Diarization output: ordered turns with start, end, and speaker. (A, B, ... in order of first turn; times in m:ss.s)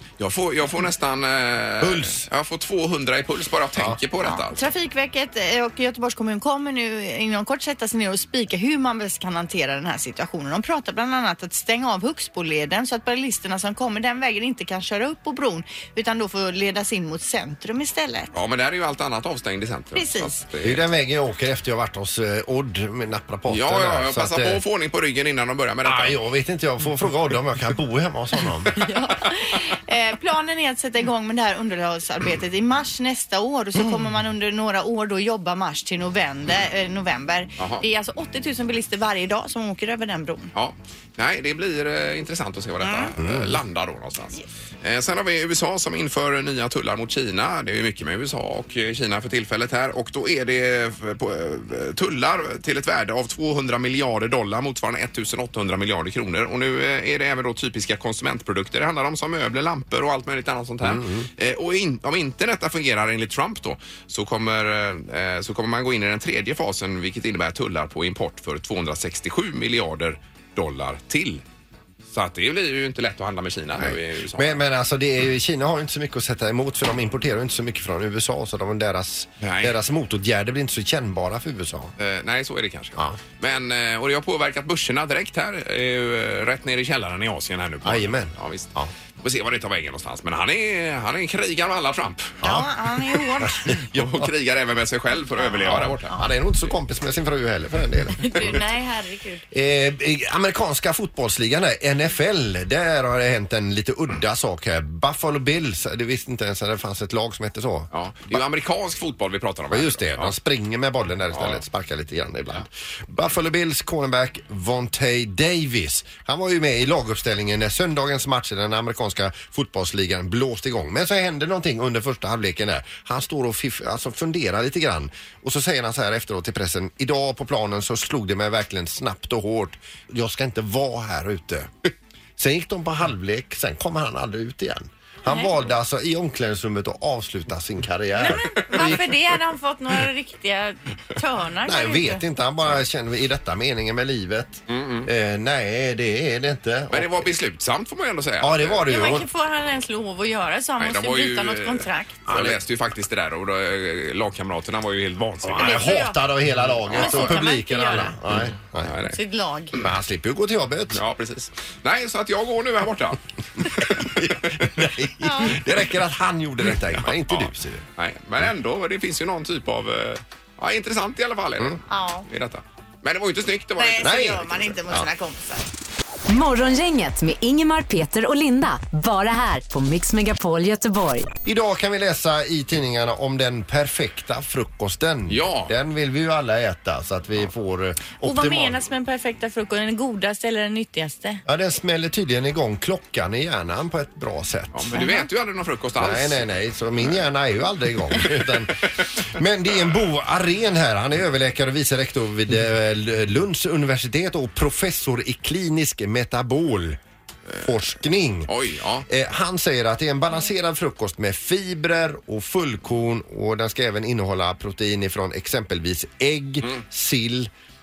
0:00.2-0:04.7 A
0:01.8-0:02.2 B
0:04.2-0:18.3 C
0:18.3-0:20.9 A
0:19.9-0:20.4 C
0:20.6-0:24.6 B
0:23.5-0:26.2 A
0:25.8-0:28.7 B
0:28.8-0:40.5 C
0:37.6-0:37.8 A
0:40.5-1:11.4 A
0:42.8-0:43.1 C
0:43.2-0:43.6 B
1:00.8-1:01.3 B
1:12.1-1:14.6 A
1:13.8-1:21.9 B
1:19.4-1:19.8 A
1:22.0-1:28.7 A
1:27.8-1:28.9 B
1:29.2-1:32.5 A
1:32.4-1:33.7 C
1:32.4-1:34.2 B
1:33.6-1:36.2 A
1:35.4-1:36.3 C
1:35.6-1:38.6 B
1:38.2-1:39.4 C
1:38.3-1:38.6 A
1:39.5-1:48.4 B
1:47.9-1:50.3 A
1:49.7-2:11.7 B
1:51.3-1:51.6 A
2:12.4-2:19.1 B
2:15.3-2:15.6 C
2:18.2-2:22.2 C
2:18.3-2:19.0 A
2:21.6-2:27.3 B
2:24.7-2:25.1 A
2:26.9-2:29.2 A
2:28.4-2:29.2 B
2:28.9-2:32.2 C
2:30.8-2:36.0 A
2:32.3-2:32.6 B
2:35.4-2:38.9 B
2:35.5-2:36.2 C
2:36.6-2:37.4 A
2:36.9-2:38.2 C
2:38.4-2:39.2 A
2:39.1-2:39.7 C
2:39.8-2:41.0 B
2:40.9-2:44.7 A
2:44.2-2:47.8 B
2:45.2-2:45.6 C
2:47.3-2:54.7 A
2:51.9-2:52.3 C
2:53.8-2:55.7 C
2:54.0-2:55.1 B
2:56.3-3:01.3 D
3:01.4-3:08.8 B
3:05.3-3:05.7 A
3:08.2-3:11.4 C
3:11.4-3:14.9 B
3:14.7-3:17.1 A
3:14.9-3:15.3 C
3:16.0-3:27.0 B
3:27.6-3:28.5 B
3:28.5-3:29.1 A
3:29.1-3:37.5 B